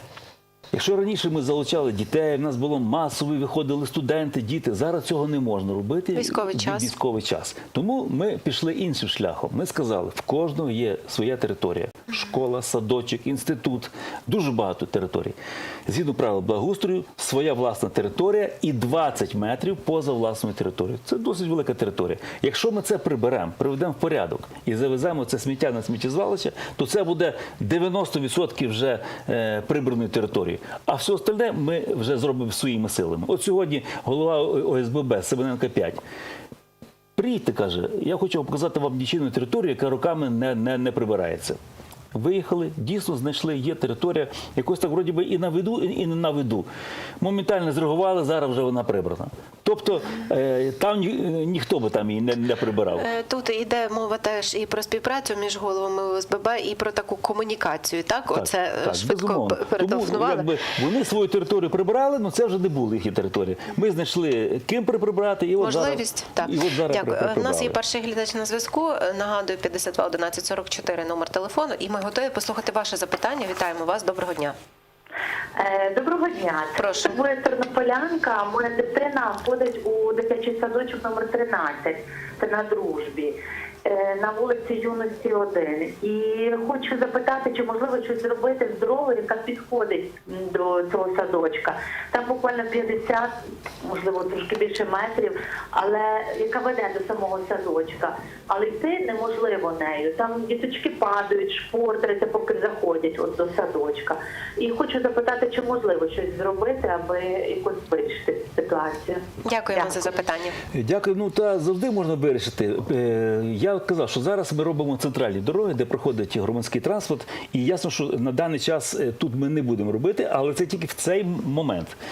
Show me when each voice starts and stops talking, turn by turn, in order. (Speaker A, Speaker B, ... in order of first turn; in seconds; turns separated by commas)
Speaker A: 0.7-15.3, Speaker B: 6.2-6.9, Speaker A: 15.9-36.0, Speaker A: 37.2-41.6, Speaker A: 42.1-46.7, Speaker A: 47.2-53.1, Speaker B: 53.0-60.5, Speaker A: 58.3-67.8, Speaker B: 65.6-74.6, Speaker C: 75.5-109.2, Speaker B: 76.8-77.2, Speaker B: 109.5-110.6, Speaker A: 110.7-122.0